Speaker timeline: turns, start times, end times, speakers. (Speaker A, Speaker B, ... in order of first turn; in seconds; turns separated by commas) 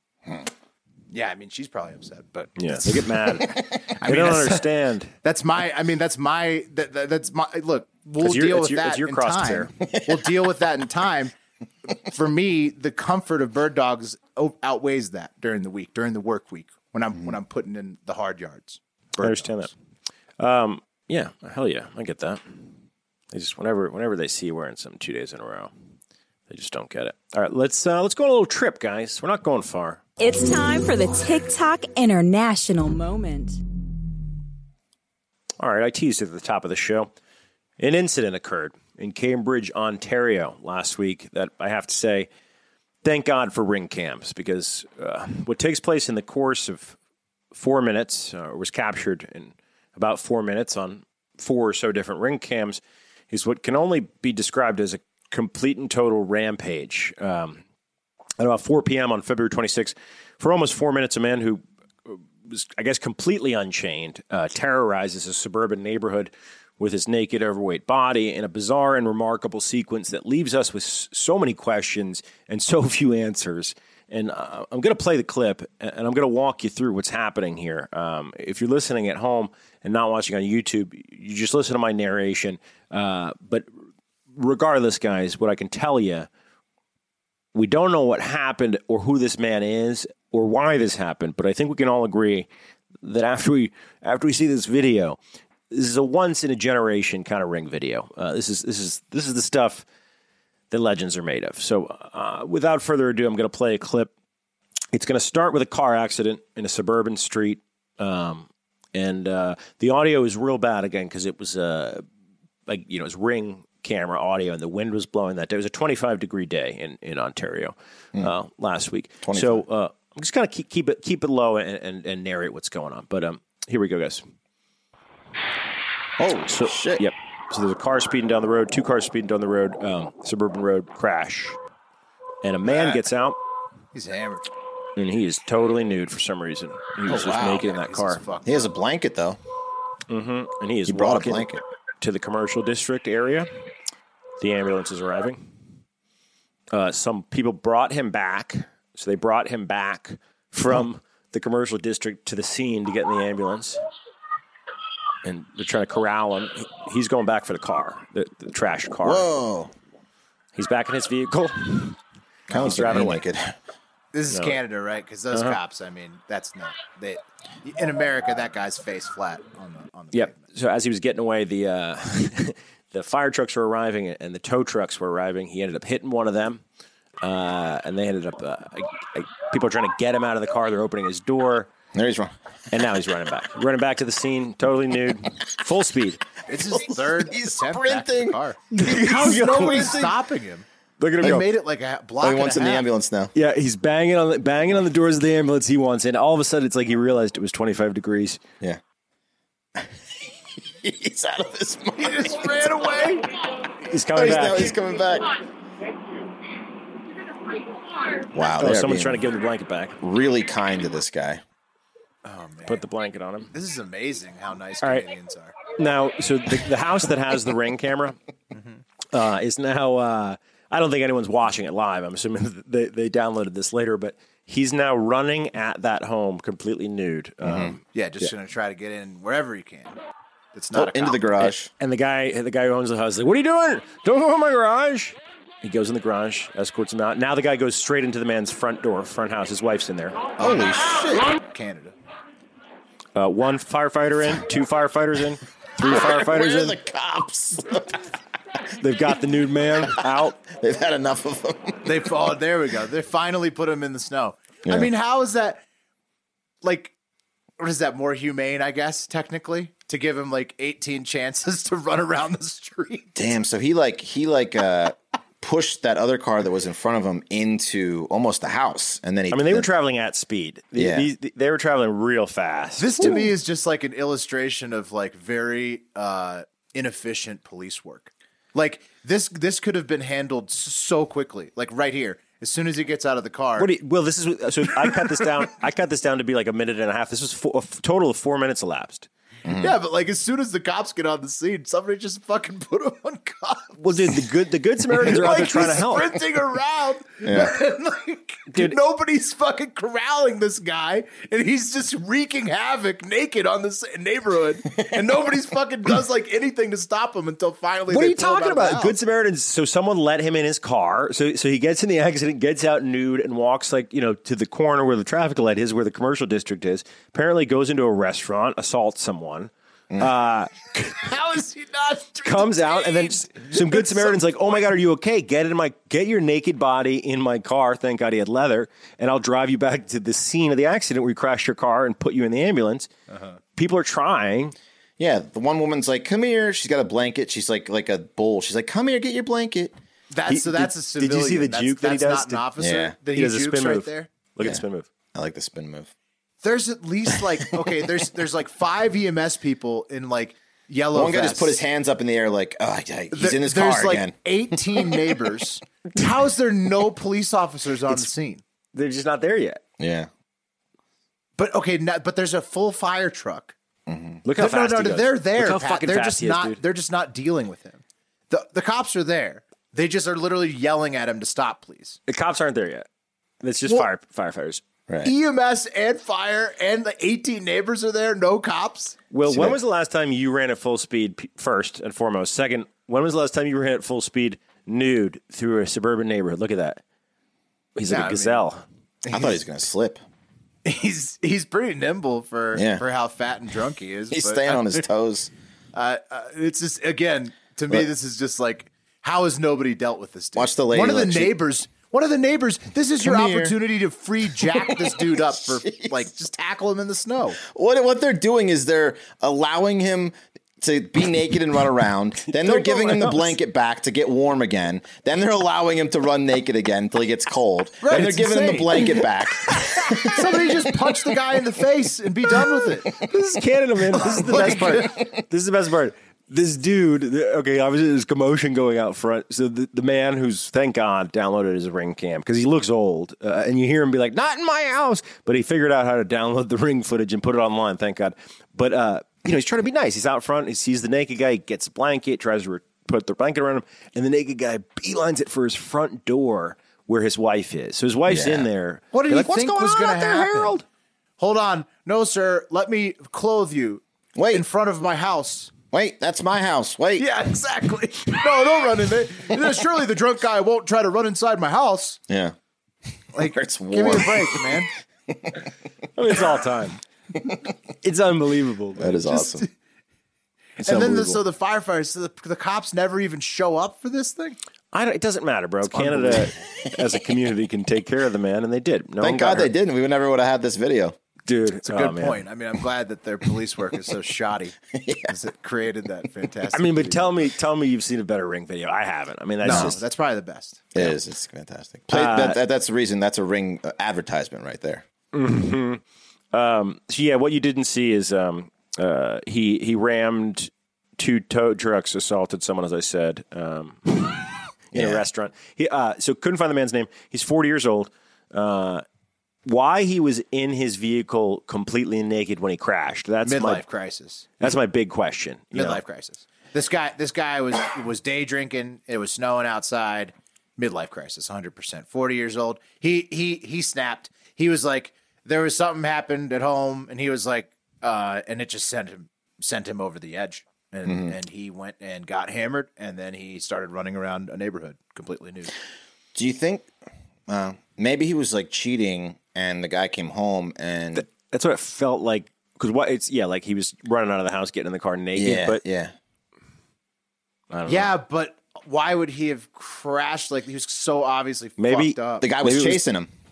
Speaker A: 1.1-3.5, Speaker B: 2.6-5.1, Speaker A: 4.0-4.7, Speaker A: 5.2-11.3, Speaker B: 8.2-9.8, Speaker C: 9.9-10.4, Speaker A: 12.1-19.7, Speaker B: 19.2-19.7, Speaker B: 20.4-22.7, Speaker B: 23.3-25.7, Speaker B: 26.5-30.0, Speaker D: 30.2-33.6, Speaker B: 35.6-37.1, Speaker B: 37.8-42.3, Speaker B: 43.0-47.0, Speaker B: 47.5-57.6, Speaker B: 58.4-83.7, Speaker B: 84.3-86.3, Speaker B: 87.5-92.5, Speaker B: 93.0-95.2, Speaker B: 95.7-99.8, Speaker B: 100.7-104.1, Speaker B: 104.9-112.0, Speaker B: 112.7-124.2, Speaker C: 119.2-119.6, Speaker C: 126.2-127.0, Speaker B: 126.5-131.6, Speaker B: 132.4-133.4, Speaker A: 132.7-133.0, Speaker A: 133.9-134.5, Speaker B: 134.9-138.2, Speaker C: 137.1-137.7, Speaker A: 137.7-138.7, Speaker C: 138.4-139.4, Speaker B: 140.1-141.5, Speaker C: 140.9-141.6, Speaker B: 142.0-143.5, Speaker B: 144.4-145.4, Speaker B: 146.7-153.8, Speaker B: 155.2-159.3, Speaker C: 159.0-159.7, Speaker B: 160.6-162.0, Speaker C: 162.5-163.6, Speaker B: 162.5-163.2, Speaker A: 164.1-170.4, Speaker B: 164.3-164.6, Speaker B: 165.3-165.6, Speaker B: 170.1-176.6, Speaker B: 177.2-181.7, Speaker C: 181.9-182.3, Speaker B: 182.7-186.2, Speaker A: 186.5-190.6, Speaker C: 186.7-190.1, Speaker B: 188.7-190.1, Speaker B: 191.0-191.4, Speaker A: 191.2-192.8, Speaker C: 192.2-193.3, Speaker B: 193.3-198.4, Speaker C: 200.7-203.0, Speaker A: 202.0-203.2, Speaker B: 203.9-204.7, Speaker C: 204.1-205.3, Speaker C: 208.3-209.2, Speaker B: 208.6-210.0, Speaker C: 210.0-211.4, Speaker A: 212.2-212.8, Speaker B: 212.7-213.5, Speaker A: 213.5-215.6, Speaker B: 214.8-215.1, Speaker B: 215.7-218.2, Speaker A: 218.5-218.8, Speaker B: 219.1-227.8, Speaker C: 227.4-227.8, Speaker A: 227.9-229.9, Speaker A: 230.5-231.5, Speaker C: 230.7-231.7, Speaker B: 231.8-240.2, Speaker C: 240.4-241.3, Speaker A: 241.3-241.9, Speaker B: 243.2-246.8, Speaker C: 245.8-248.0, Speaker B: 248.8-250.4, Speaker C: 249.8-251.9, Speaker A: 251.8-255.6, Speaker A: 256.6-256.9, Speaker A: 257.6-263.1, Speaker C: 263.1-269.7, Speaker B: 269.3-273.2, Speaker C: 270.7-271.1, Speaker A: 272.8-283.7, Speaker B: 283.6-289.1, Speaker C: 289.4-289.7, Speaker A: 289.6-294.1, Speaker B: 293.8-296.2, Speaker A: 295.0-309.0, Speaker C: 297.2-297.5, Speaker B: 307.9-320.9, Speaker A: 321.0-324.6, Speaker B: 322.2-332.9, Speaker A: 333.1-333.4, Speaker B: 333.6-334.5, Speaker C: 335.0-339.7, Speaker A: 340.1-344.1, Speaker B: 340.3-342.5, Speaker C: 342.6-342.9, Speaker B: 343.1-344.9, Speaker C: 345.1-345.9, Speaker A: 346.4-351.6, Speaker C: 347.2-347.4, Speaker C: 350.9-354.9, Speaker A: 353.1-358.4, Speaker B: 358.7-359.6, Speaker C: 359.8-360.1, Speaker A: 361.4-363.5, Speaker C: 363.9-364.2, Speaker B: 364.2-366.6, Speaker A: 364.4-372.0, Speaker B: 372.1-372.9, Speaker B: 373.4-374.6, Speaker A: 375.0-378.9, Speaker B: 379.1-386.8, Speaker C: 379.2-379.6, Speaker B: 387.8-388.6, Speaker A: 387.9-388.4, Speaker A: 389.1-389.4, Speaker C: 389.1-390.0, Speaker A: 390.6-394.8, Speaker C: 392.5-392.8, Speaker C: 394.1-395.3, Speaker A: 395.7-407.4, Speaker C: 400.3-401.3, Speaker C: 403.0-403.6, Speaker C: 404.6-406.1, Speaker C: 407.4-420.3, Speaker A: 412.3-413.2, Speaker A: 417.8-419.0, Speaker A: 420.1-422.9, Speaker B: 423.0-450.6, Speaker C: 424.0-425.0, Speaker A: 424.1-424.9, Speaker C: 448.1-448.5, Speaker A: 448.9-450.5, Speaker A: 451.2-455.5, Speaker C: 454.1-454.4, Speaker C: 455.7-457.1, Speaker A: 457.0-462.0, Speaker C: 462.1-462.3, Speaker A: 463.1-464.7, Speaker C: 463.1-465.4, Speaker B: 465.9-466.8, Speaker B: 467.8-469.0, Speaker C: 468.8-469.4, Speaker A: 469.1-469.5, Speaker C: 470.6-471.2, Speaker A: 470.6-474.4, Speaker B: 474.7-479.5, Speaker C: 475.7-476.3, Speaker C: 479.0-480.9, Speaker B: 481.3-482.2, Speaker A: 481.6-484.6, Speaker C: 484.7-485.1, Speaker A: 485.1-487.2, Speaker B: 486.5-489.8, Speaker A: 489.4-490.9, Speaker C: 489.4-489.7, Speaker C: 490.7-494.8, Speaker B: 491.9-492.4, Speaker B: 495.1-495.8, Speaker B: 496.3-504.1, Speaker B: 504.7-508.8, Speaker C: 504.7-505.0, Speaker B: 509.4-513.6, Speaker A: 513.2-514.3, Speaker B: 514.4-515.8, Speaker A: 515.5-535.5, Speaker C: 530.8-531.1, Speaker C: 536.1-536.7, Speaker C: 537.3-541.0, Speaker B: 540.9-545.6, Speaker C: 545.1-545.9, Speaker B: 547.5-547.9, Speaker A: 547.7-552.2, Speaker B: 551.6-552.8, Speaker C: 552.2-553.1